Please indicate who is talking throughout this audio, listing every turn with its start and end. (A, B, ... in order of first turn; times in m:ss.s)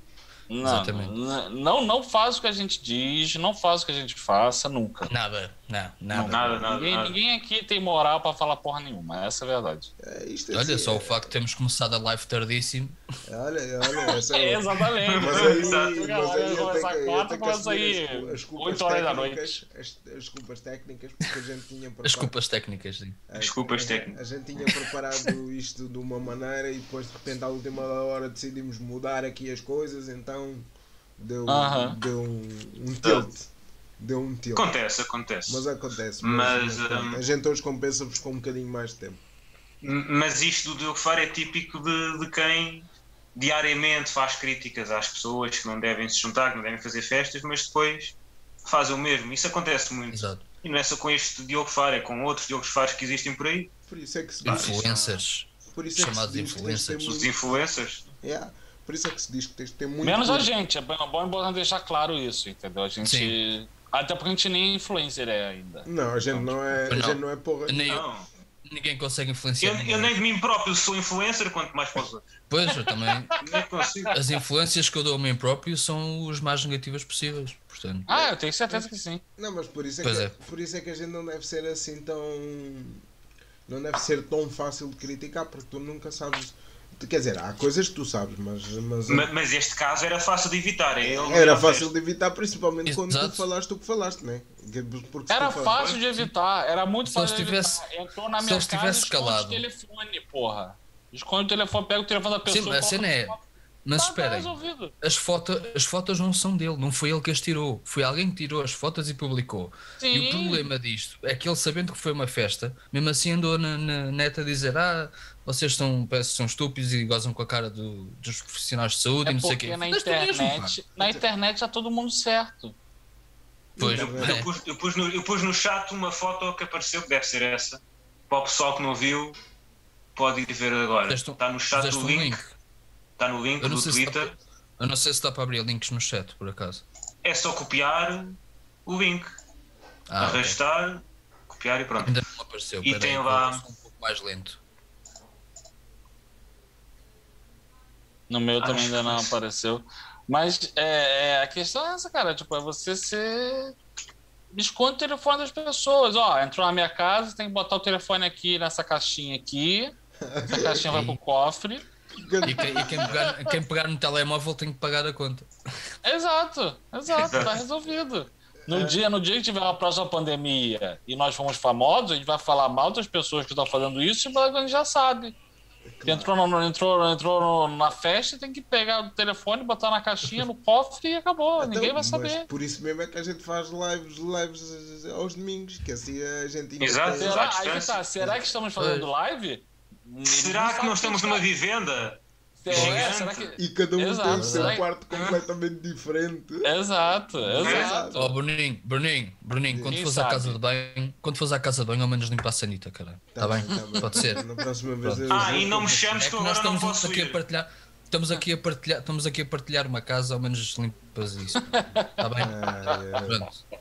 0:00.5-0:05.1 A
0:00.6-0:01.1 B
0:05.1-0:06.6 B
0:06.1-0:09.9 A
0:06.2-0:07.2 C
0:10.0-0:11.3 D
0:10.5-0:13.0 B
0:13.3-0:22.3 D
0:14.3-0:19.6 A
0:15.1-0:16.6 C
0:22.0-0:23.2 B
0:23.3-0:34.7 D
0:23.4-0:24.2 C
0:31.5-0:32.0 A
0:34.5-0:35.6 C
0:35.5-0:39.2 D
0:36.2-0:37.2 C
0:39.8-0:53.7 C
0:50.1-0:50.4 B
0:53.9-0:55.0 D
0:54.4-0:55.1 C
0:54.4-0:57.2 B
0:55.7-0:57.3 D
0:57.0-0:58.1 C
0:58.2-1:00.5 D
1:00.0-1:06.5 A
1:03.0-1:03.3 B
1:05.8-1:08.1 D
1:06.9-1:08.0 B
1:07.9-1:08.3 C
1:08.6-1:10.2 B
1:09.6-1:12.2 C
1:12.5-1:13.3 B
1:12.7-1:13.4 A
1:13.4-1:14.1 C
1:14.1-1:18.1 B
1:18.1-1:19.2 A
1:18.1-1:23.0 D
1:20.0-1:20.3 B
1:23.7-1:29.3 D
1:29.1-1:31.9 C
1:31.0-1:35.8 D
1:32.8-1:33.4 B
1:35.3-1:43.4 A
1:35.7-1:36.0 C
1:37.0-1:37.8 B
1:38.4-1:39.6 B
1:42.4-2:00.8 B
1:44.0-1:44.9 A
1:50.0-1:50.6 A
1:59.2-2:02.7 A
2:03.8-2:04.5 D
2:03.8-2:04.5 B
2:03.8-2:09.4 C
2:10.2-2:12.4 C
2:11.1-2:12.6 B
2:13.2-2:14.3 C
2:13.6-2:16.8 B
2:17.2-2:19.3 C
2:20.1-2:20.6 B
2:20.2-2:22.1 C
2:22.0-2:24.6 B
2:22.8-2:23.6 C
2:28.3-2:33.8 A
2:28.6-2:29.4 C
2:34.5-2:39.9 A
2:40.2-2:40.9 D
2:40.5-2:41.8 A
2:40.8-2:41.2 B
2:42.2-2:43.1 D
2:42.4-2:45.5 B
2:42.5-2:43.5 A
2:46.0-2:55.3 A
2:47.2-2:47.6 C
2:48.7-2:49.0 D
2:56.0-2:56.3 D
2:56.0-3:02.5 A
3:01.6-3:07.4 D
3:06.8-3:08.0 C
3:07.2-3:11.4 A
3:08.2-3:08.4 D
3:08.8-3:09.1 B
3:10.2-3:13.5 C
3:12.6-3:14.8 A
3:12.7-3:16.7 D
3:14.2-3:14.8 B
3:16.6-3:18.4 A
3:17.3-3:18.2 D
3:17.6-3:18.0 C
3:18.1-3:24.4 B
3:19.7-3:20.0 D
3:19.9-3:20.6 A
3:23.3-3:26.3 D
3:25.0-3:25.5 B
3:25.3-3:27.4 C
3:26.2-3:33.6 B
3:31.7-3:32.3 A
3:32.4-3:33.5 D